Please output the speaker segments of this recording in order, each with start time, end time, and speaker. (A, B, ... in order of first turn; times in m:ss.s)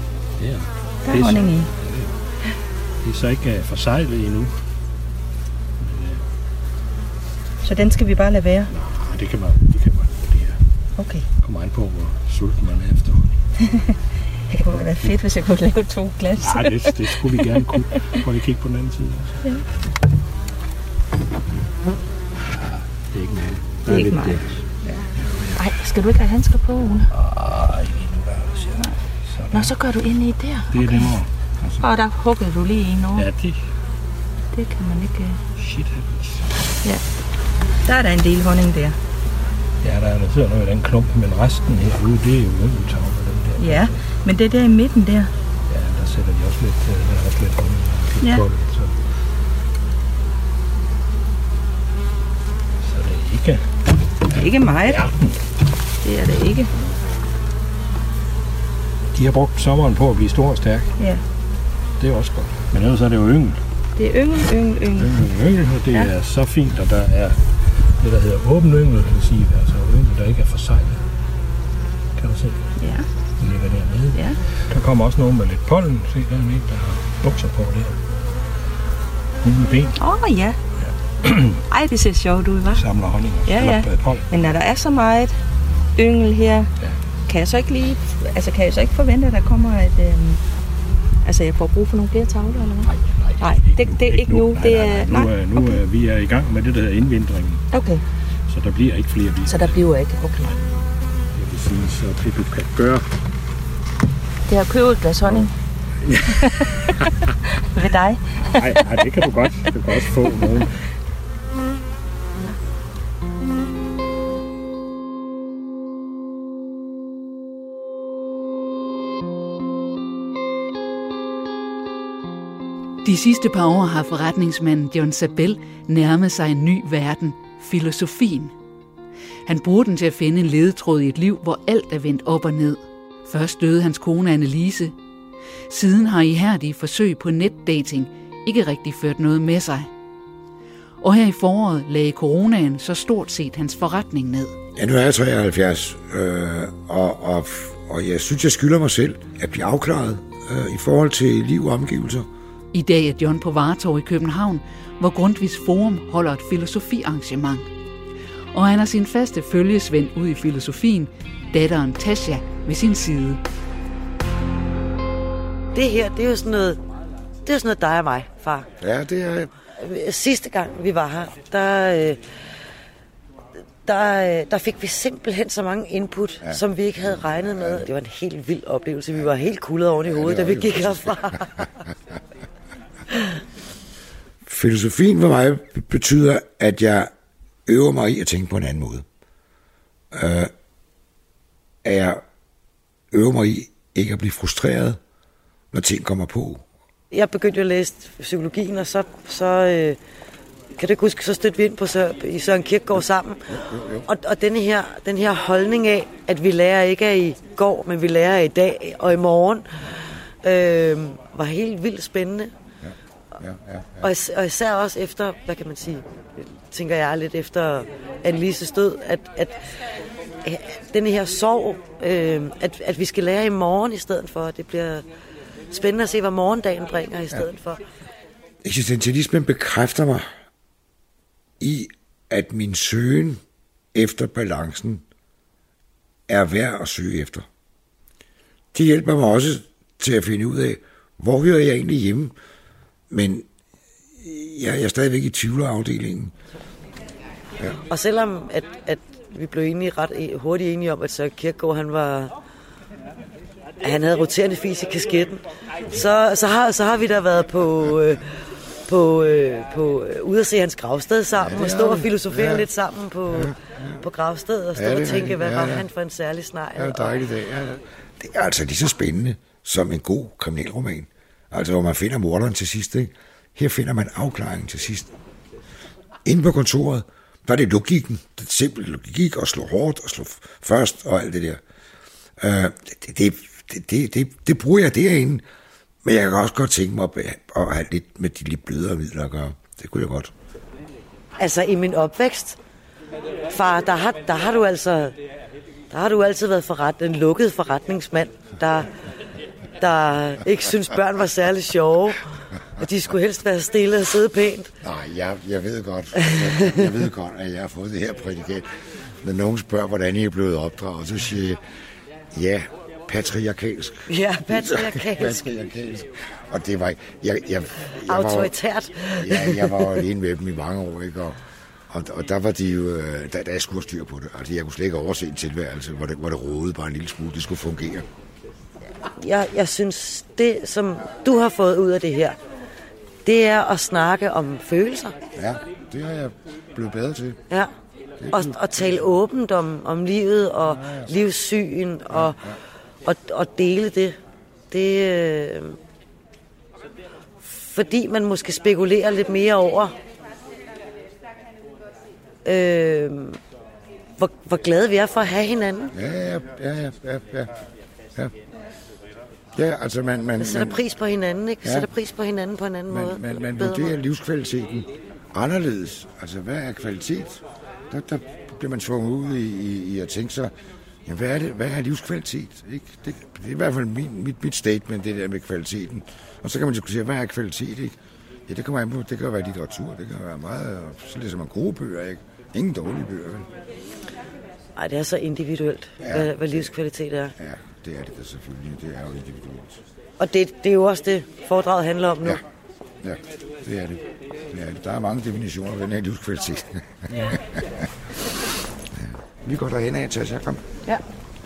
0:00.4-0:02.2 A
0:01.0-0:01.7 B
0:03.0-0:04.6 A
0:05.8-0:06.2 A
0:07.6-0:08.7 B
0:08.7-0:10.6 A
0:11.0-0:11.3 B
0:11.4-0:13.4 A
0:14.5-0:18.2 B
0:14.6-0:15.2 A
0:16.4-0:19.4 A
0:23.1-0:25.7 A
0:23.9-0:25.0 B
0:25.6-0:27.1 B
0:27.1-0:29.8 A
0:29.5-0:31.2 B
0:30.7-0:31.9 A
0:31.8-0:33.2 B
0:33.1-0:33.6 A
0:34.5-0:35.4 B
0:35.6-0:36.7 A
0:37.8-0:39.0 B
0:39.8-0:44.0 A
0:43.6-0:45.3 B
0:45.7-0:49.1 A
0:48.2-0:48.4 B
0:52.8-0:53.7 A
0:54.3-0:55.1 B
0:54.3-0:55.3 A
0:56.0-0:56.7 B
0:59.1-1:00.9 A
1:02.0-1:03.6 A
1:04.0-1:05.1 B
1:04.9-1:11.0 A
1:12.2-1:12.7 A
1:12.8-1:13.1 B
1:13.4-1:18.0 A
1:14.1-1:14.4 B
1:19.4-1:20.0 A
1:20.0-1:20.6 B
1:20.8-1:21.6 A
1:21.7-1:22.8 B
1:22.7-1:24.3 A
1:23.4-1:25.4 B
1:26.0-1:26.7 B
1:27.3-1:30.4 B
1:31.2-1:35.8 B
1:32.8-1:37.6 A
1:37.7-1:38.0 B
1:38.5-1:39.8 A
1:39.4-1:40.5 B
1:41.3-1:43.1 A
1:44.5-1:45.5 B
1:45.2-1:45.5 A
1:46.0-1:47.3 A
1:46.3-1:47.1 B
1:47.7-1:50.3 B
1:48.4-1:50.9 A
2:03.0-2:08.5 C
2:09.4-2:14.9 C
2:15.7-2:19.9 C
2:21.0-2:24.6 C
2:24.8-2:32.3 D
2:32.7-2:37.7 C
2:38.5-2:43.4 C
2:45.7-2:46.8 E
2:47.4-2:48.7 E
2:48.8-2:49.5 D
2:49.8-2:52.3 E
2:53.8-3:01.7 E
2:56.4-2:57.8 D
3:00.0-3:01.6 D
3:04.4-3:07.1 D
3:07.7-3:09.0 D
3:10.1-3:10.5 D
3:11.8-3:12.2 D
3:13.1-3:15.0 D
3:15.7-3:16.6 D
3:17.1-3:20.0 E
3:20.8-3:32.5 E
3:22.9-3:24.0 D
3:32.8-3:34.0 D
3:34.0-3:39.7 E
3:40.4-3:45.0 E
3:45.7-3:47.8 E
3:48.6-3:50.2 D
3:51.6-3:53.4 D
3:53.9-3:55.0 D
3:56.3-3:57.4 D
3:58.7-4:02.3 D
4:03.1-4:03.4 D
4:04.2-4:06.3 D
4:07.8-4:12.3 E
4:13.8-4:27.3 E
4:21.4-4:22.6 D
4:23.3-4:24.0 D
4:24.7-4:25.8 D
4:26.8-4:35.1 D
4:36.2-4:41.6 D
4:42.4-4:45.4 D
4:46.0-4:50.3 D
4:51.4-4:52.6 E
4:53.5-4:55.2 E
4:55.9-4:58.9 E
4:59.8-5:04.7 E
5:04.8-5:11.6 D
5:06.2-5:06.9 E
5:12.3-5:18.5 D
5:14.1-5:15.5 E
5:18.0-5:19.9 E
5:19.1-5:28.0 D
5:29.1-5:32.4 E
5:33.2-5:35.2 E
5:35.4-5:37.4 D
5:38.2-5:39.1 D
5:38.3-5:44.2 E
5:40.8-5:41.1 D
5:42.1-5:42.6 D
5:44.7-5:45.8 E
5:47.4-5:49.9 E
5:52.4-5:53.4 E
5:54.2-5:55.9 E
5:55.9-5:57.5 D
5:59.5-6:00.8 D
6:00.4-6:03.9 E
6:01.6-6:01.9 D
6:02.9-6:10.5 D
6:11.0-6:18.0 D
6:18.5-6:23.5 D
6:24.8-6:27.3 E
6:26.0-6:26.8 D
6:27.4-6:29.8 D
6:30.2-6:32.4 E
6:33.0-6:37.9 D
6:38.9-6:40.7 D